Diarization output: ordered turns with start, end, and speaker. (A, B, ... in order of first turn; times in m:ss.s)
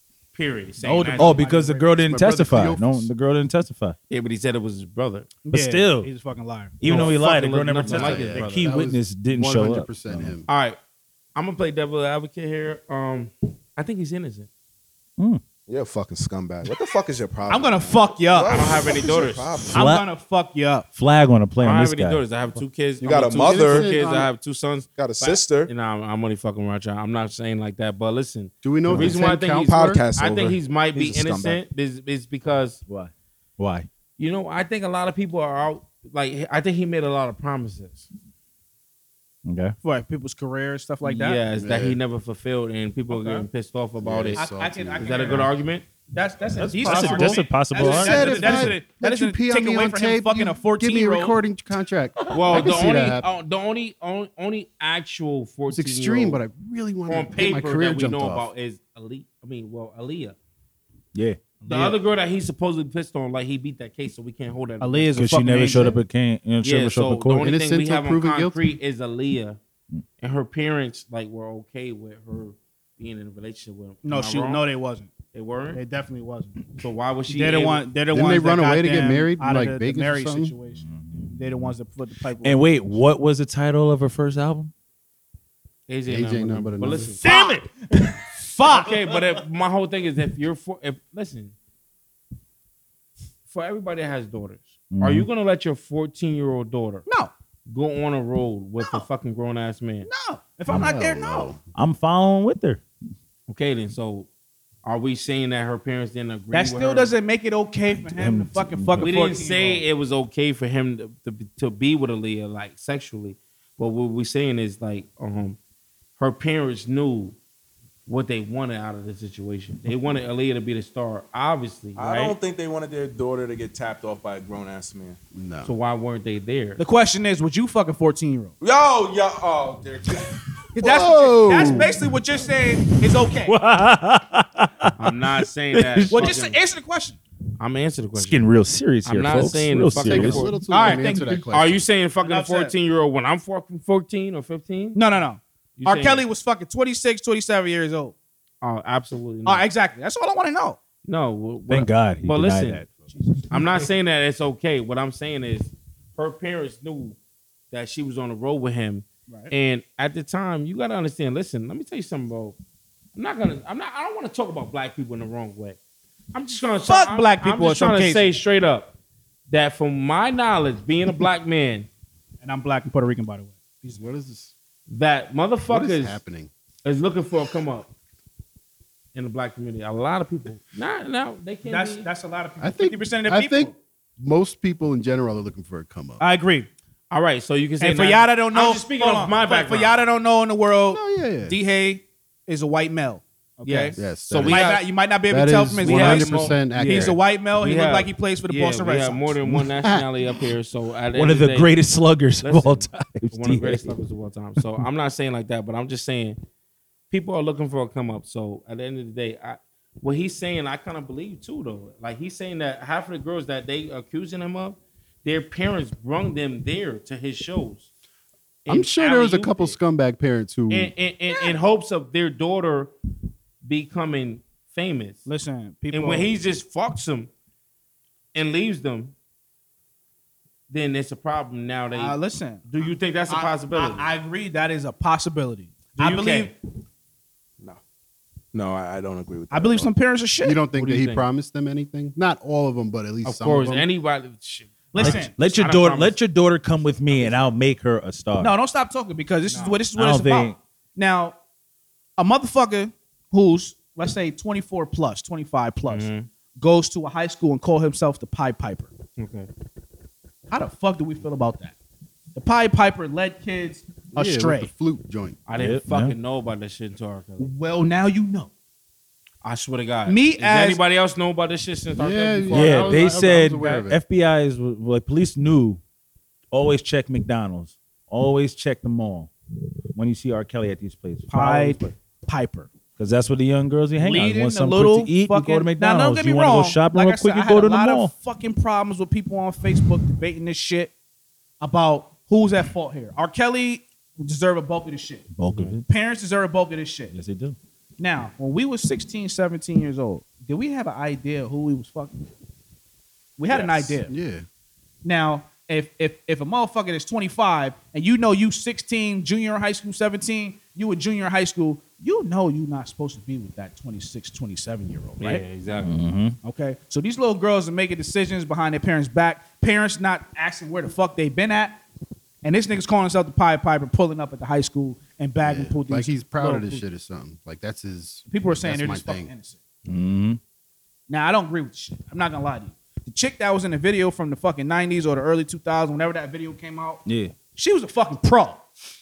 0:00.3-0:01.4 A
0:00.8-0:02.2 B
0:01.0-0:04.0 C
0:02.1-0:03.1 D
0:04.1-0:05.4 A
0:05.4-0:06.8 B
0:05.5-0:06.1 C
0:06.8-0:10.4 C
0:06.8-0:08.8 A
0:07.8-0:10.5 D
0:10.5-0:10.8 A
0:11.4-0:14.5 A
0:15.7-0:19.8 E
0:17.5-0:18.8 B
0:18.5-0:19.5 A
0:19.7-0:20.1 C
0:19.7-0:20.9 B
0:21.0-0:22.6 C
0:21.6-0:32.8 A
0:23.0-0:23.9 E
0:23.2-0:24.3 D
0:25.0-0:25.7 E
0:28.6-0:30.1 D
0:29.7-0:31.6 E
0:32.9-0:33.9 C
0:34.2-0:38.1 A
0:39.5-0:39.8 C
0:39.8-0:41.4 B
0:41.1-0:44.5 A
0:41.6-0:42.0 D
0:43.1-0:43.4 C
0:44.0-0:45.5 D
0:44.4-0:45.5 B
0:45.0-0:45.8 A
0:46.1-0:51.4 B
0:46.6-0:48.8 C
0:46.8-0:53.3 D
0:52.3-0:56.4 A
0:55.7-0:58.5 D
0:57.1-1:00.4 A
1:01.2-1:01.7 C
1:01.7-1:02.0 B
1:01.7-1:05.7 A
1:04.8-1:06.0 B
1:05.2-1:07.5 C
1:06.6-1:09.6 A
1:07.4-1:08.6 D
1:10.2-1:14.7 A
1:14.0-1:15.1 B
1:15.3-1:15.8 A
1:15.7-1:16.6 B
1:16.8-1:17.9 A
1:17.3-1:23.0 B
1:18.1-1:20.6 D
1:20.8-1:21.8 C
1:22.4-1:24.7 C
1:25.9-1:27.2 A
1:26.1-1:27.1 D
1:27.2-1:27.7 C
1:27.2-1:29.0 B
1:28.7-1:31.5 A
1:33.5-1:37.0 A
1:34.9-1:35.3 C
1:37.1-1:37.3 B
1:37.7-1:40.1 A
1:40.0-1:41.5 B
1:40.7-1:41.0 C
1:40.7-1:41.6 D
1:41.7-1:42.8 C
1:43.5-1:44.3 A
1:44.8-1:47.2 A
1:46.5-1:49.8 B
1:48.1-1:49.1 C
1:49.0-1:55.6 A
1:56.2-1:57.4 A
1:58.1-2:02.4 A
2:02.0-2:05.2 E
2:05.3-2:05.7 D
2:05.6-2:06.8 A
2:06.8-2:08.5 B
2:08.6-2:11.8 E
2:10.8-2:13.6 B
2:10.8-2:11.9 D
2:13.1-2:16.4 C
2:15.0-2:16.6 A
2:16.1-2:17.2 B
2:17.6-2:18.4 A
2:18.2-2:20.5 C
2:19.0-2:25.0 A
2:20.0-2:21.9 D
2:20.7-2:21.5 B
2:22.2-2:22.8 B
2:25.0-2:28.2 B
2:25.8-2:26.2 A
2:28.6-2:29.6 A
2:29.5-2:30.8 B
2:31.0-2:32.8 A
2:31.7-2:32.9 C
2:33.1-2:33.4 B
2:33.5-2:37.2 A
2:33.5-2:33.8 C
2:37.7-2:42.6 A
2:39.3-2:39.5 B
2:43.2-2:45.8 A
2:46.3-2:49.0 A
2:46.9-2:48.3 B
2:49.5-2:51.9 A
2:52.4-2:54.0 B
2:53.9-2:54.5 D
2:54.9-2:56.2 A
2:55.7-2:56.5 D
2:56.8-2:57.9 A
2:59.2-3:02.1 A
3:01.6-3:03.7 B
3:02.6-3:06.2 D
3:06.2-3:06.7 B
3:07.1-3:10.0 A
3:07.8-3:19.3 B
3:10.9-3:11.6 D
3:13.6-3:14.8 A
3:14.0-3:14.7 D
3:15.3-3:17.2 D
3:15.8-3:21.7 A
3:19.5-3:20.0 D
3:21.1-3:23.9 C
3:22.4-3:26.4 A
3:27.1-3:37.9 A
3:38.6-3:39.8 A
3:38.7-3:40.9 D
3:40.7-3:42.9 A
3:43.6-3:45.3 A
3:45.3-3:46.3 B
3:45.9-3:47.3 A
3:48.3-3:49.1 A
3:50.7-3:52.2 A
3:51.9-3:56.5 B
3:52.7-3:54.1 A
3:56.0-3:56.5 A
3:58.5-3:59.9 E
3:59.5-4:00.6 B
4:00.4-4:03.9 D
4:00.7-4:01.3 A
4:03.2-4:06.2 A
4:04.9-4:05.3 B
4:05.0-4:08.5 C
4:08.4-4:11.4 B
4:09.5-4:09.8 A
4:09.9-4:10.6 C
4:12.2-4:18.9 B
4:15.9-4:16.3 A
4:19.2-4:19.5 A
4:20.5-4:21.8 B
4:22.4-4:24.7 B
4:24.1-4:25.4 D
4:25.5-4:27.5 A
4:25.6-4:26.2 C
4:27.4-4:28.5 B
4:29.4-4:33.0 A
4:30.1-4:30.8 B
4:32.0-4:34.0 D
4:32.5-4:35.8 C
4:36.5-4:39.3 C
4:40.0-4:41.9 C
4:41.3-4:42.7 B
4:43.0-4:48.1 C
4:44.0-4:50.9 B
4:51.6-4:55.3 B
4:55.4-4:55.8 C
4:55.9-4:57.2 B
4:57.1-4:57.6 C
4:58.0-5:02.3 B
5:03.4-5:04.1 B
5:03.6-5:04.5 D
5:05.0-5:15.4 B
5:15.2-5:16.0 A
5:15.8-5:16.4 C
5:16.4-5:21.8 B
5:22.4-5:26.8 B
5:25.4-5:29.3 D
5:28.3-5:29.6 B
5:29.9-5:30.4 C
5:31.1-5:38.6 B
5:37.1-5:37.3 C